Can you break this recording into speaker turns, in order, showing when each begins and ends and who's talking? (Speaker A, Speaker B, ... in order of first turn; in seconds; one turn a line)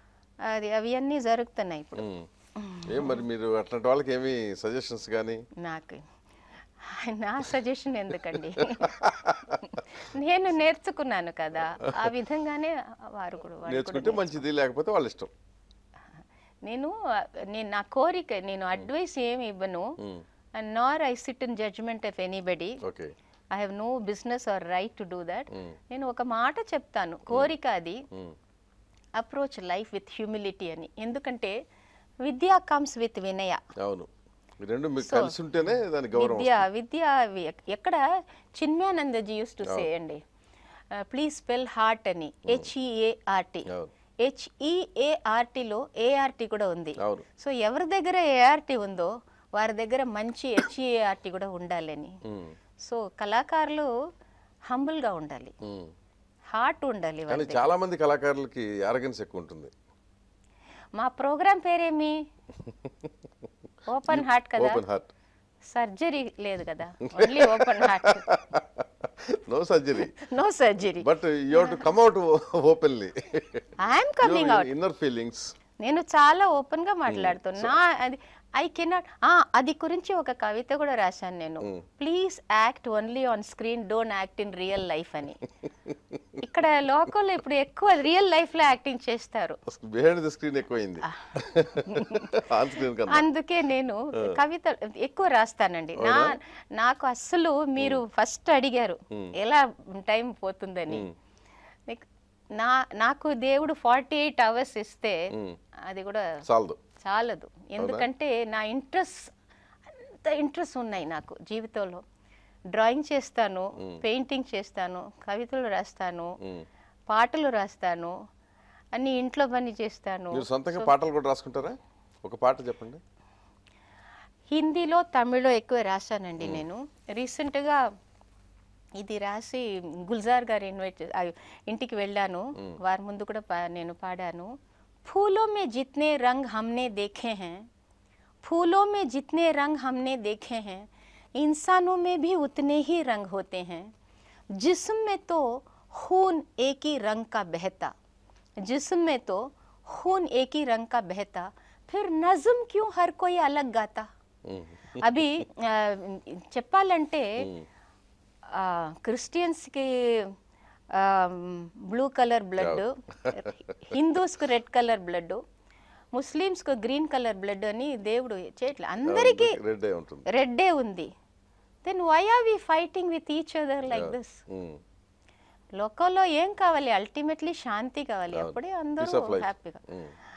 Speaker A: 0.4-3.3
Speaker B: 2.0-2.3
Speaker B: 2.9-5.4
Speaker A: 5.6-6.0
Speaker A: 6.8-9.0
Speaker B: 8.3-9.8
Speaker A: 9.5-14.4
Speaker B: 11.8-12.1
Speaker B: 13.7-15.3
Speaker A: 16.6-19.9
Speaker A: 20.6-22.8
Speaker B: 22.8-23.1
Speaker A: 23.5-28.0
Speaker B: 25.5-25.8
Speaker A: 29.2-31.6
Speaker A: 32.2-33.6
Speaker B: 33.8-34.1
Speaker B: 34.6-36.6
Speaker A: 35.0-35.4
Speaker A: 36.1-38.0
Speaker A: 38.5-40.2
Speaker A: 40.9-43.7
Speaker A: 44.2-52.1
Speaker B: 47.0-47.2
Speaker B: 52.3-52.6
Speaker A: 52.8-53.9
Speaker A: 54.7-55.5
Speaker B: 55.6-55.9
Speaker A: 56.5-57.8
Speaker B: 57.3-59.7
Speaker A: 61.0-62.1
Speaker B: 62.6-63.1
Speaker A: 63.9-64.8
Speaker B: 64.1-65.1
Speaker A: 65.7-68.3
Speaker B: 67.0-70.2
Speaker A: 70.0-71.9
Speaker B: 71.0-75.5
Speaker A: 73.8-74.7
Speaker A: 75.8-85.4
Speaker B: 77.1-77.7
Speaker B: 85.8-86.4
Speaker A: 86.4-89.6
Speaker B: 89.7-93.2
Speaker A: 91.1-92.5
Speaker A: 93.1-101.1
Speaker B: 96.0-96.4
Speaker A: 101.9-105.2
Speaker B: 105.3-105.6
Speaker A: 105.9-106.4
Speaker B: 106.5-106.8
Speaker A: 107.0-109.3
Speaker B: 107.8-108.1
Speaker A: 109.9-112.0
Speaker A: 112.7-116.3
Speaker A: 117.1-118.1
Speaker A: 118.9-120.9
Speaker B: 120.3-123.0
Speaker A: 124.5-127.8
Speaker A: 129.0-134.5
Speaker A: 135.1-137.7
Speaker A: 138.4-143.9
Speaker A: 144.5-147.9
Speaker A: 148.6-154.1
Speaker B: 154.5-155.0
Speaker A: 155.0-157.4
Speaker B: 157.4-157.7
Speaker A: 158.5-160.3
Speaker A: 160.9-165.4
Speaker B: 162.6-163.9
Speaker A: 166.1-169.6
Speaker B: 169.0-170.3
Speaker A: 170.3-171.1
Speaker A: 171.8-174.4
Speaker B: 173.8-174.8
Speaker A: 175.8-179.8
Speaker B: 178.3-180.2